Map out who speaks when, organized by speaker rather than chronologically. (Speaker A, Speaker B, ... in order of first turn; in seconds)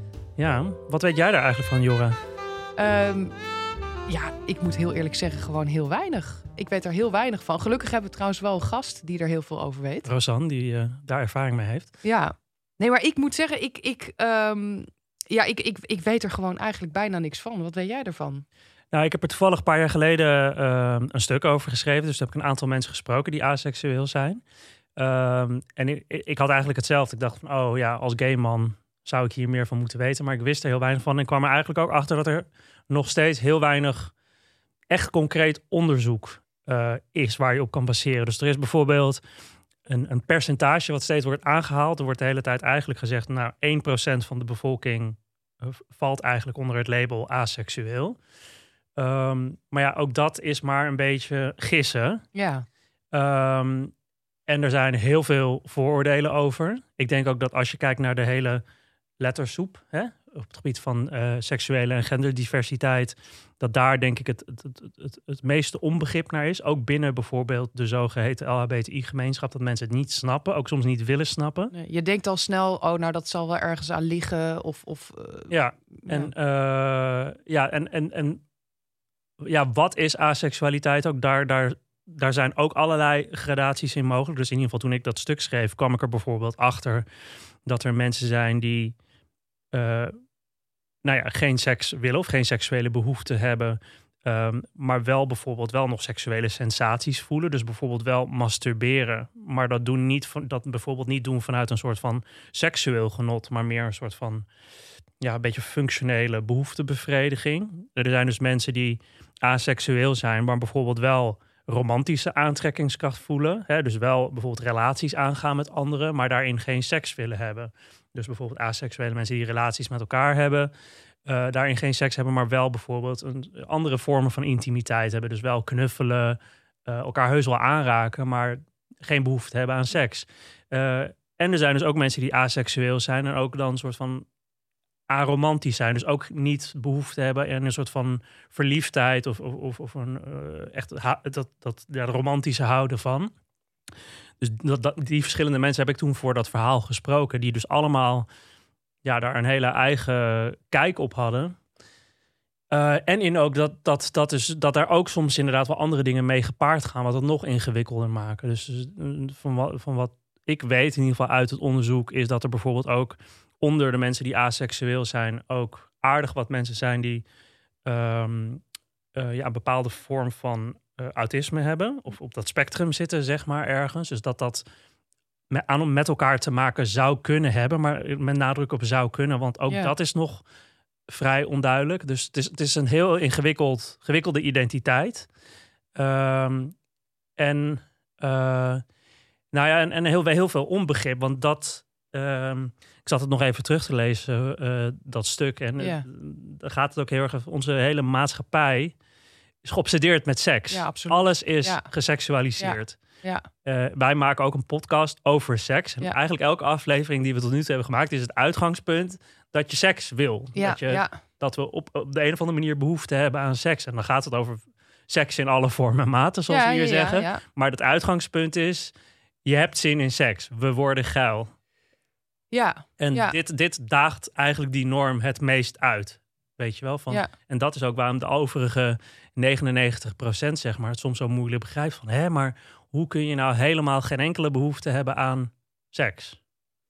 Speaker A: 0.4-2.2, 10.1-11.9, 18.9-24.4, 25.0-34.1, 34.9-39.2, 39.9-48.2, 49.0-52.2, 53.1-53.9, 54.5-58.6, 59.2-71.7, 75.5-78.4, 79.4-87.1, 87.7-89.0, 89.7-90.2, 91.0-104.5, 105.2-120.7, 121.3-134.3, 135.1-143.3, 144.4-148.3, 149.0-151.6, 152.7-167.3, 167.8-168.6, 169.1-174.6, 175.5-180.4, 181.1-185.3, 185.9-186.8, 187.4-188.8, 189.5-199.0, 199.6-218.9, 219.4-221.5, 223.0-236.4
Speaker B: 2.8-3.4, 4.1-10.1, 12.0-18.4, 52.3-52.7, 71.7-76.3, 179.7-179.9, 195.8-196.1, 200.7-201.9, 202.6-203.5, 210.6-211.2, 216.5-217.4, 222.5-223.4